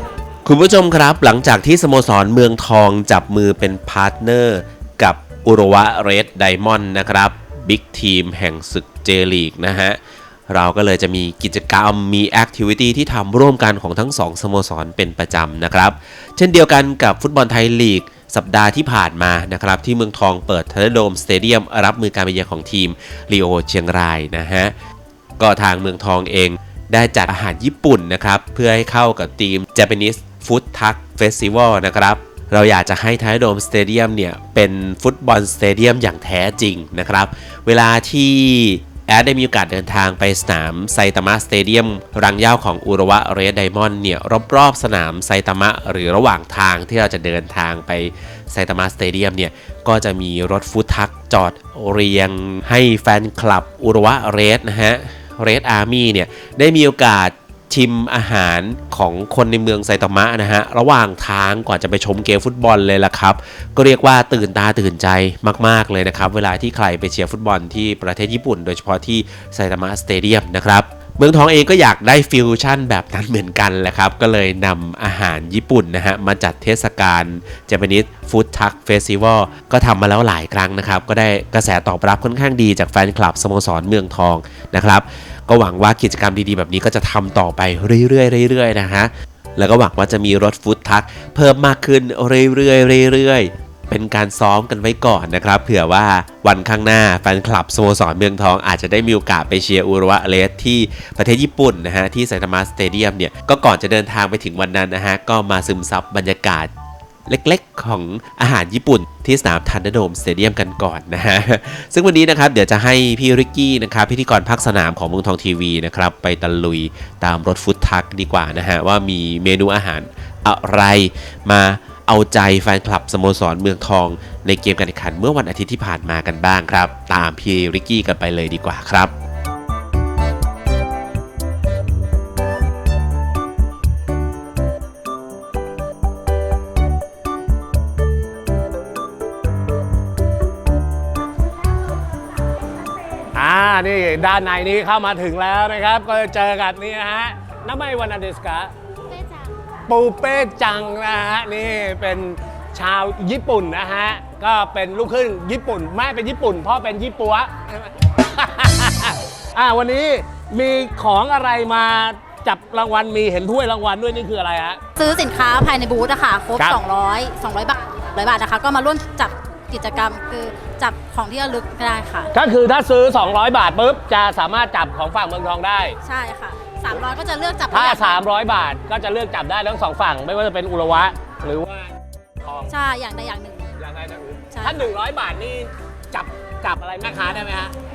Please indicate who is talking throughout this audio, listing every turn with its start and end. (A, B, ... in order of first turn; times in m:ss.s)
0:00.4-0:10.0 A
0:10.5-0:24.7 A
0:25.4-1:46.7 A
1:47.3-2:09.1 A
2:23.3-2:28.7 B
2:29.9-2:44.8 B
2:45.0-2:52.3 C
2:52.3-2:56.0 B
2:56.0-2:58.2 C
2:57.7-3:02.7 B
3:02.7-3:03.7 C
3:03.8-3:07.7 B
3:04.5-3:04.9 C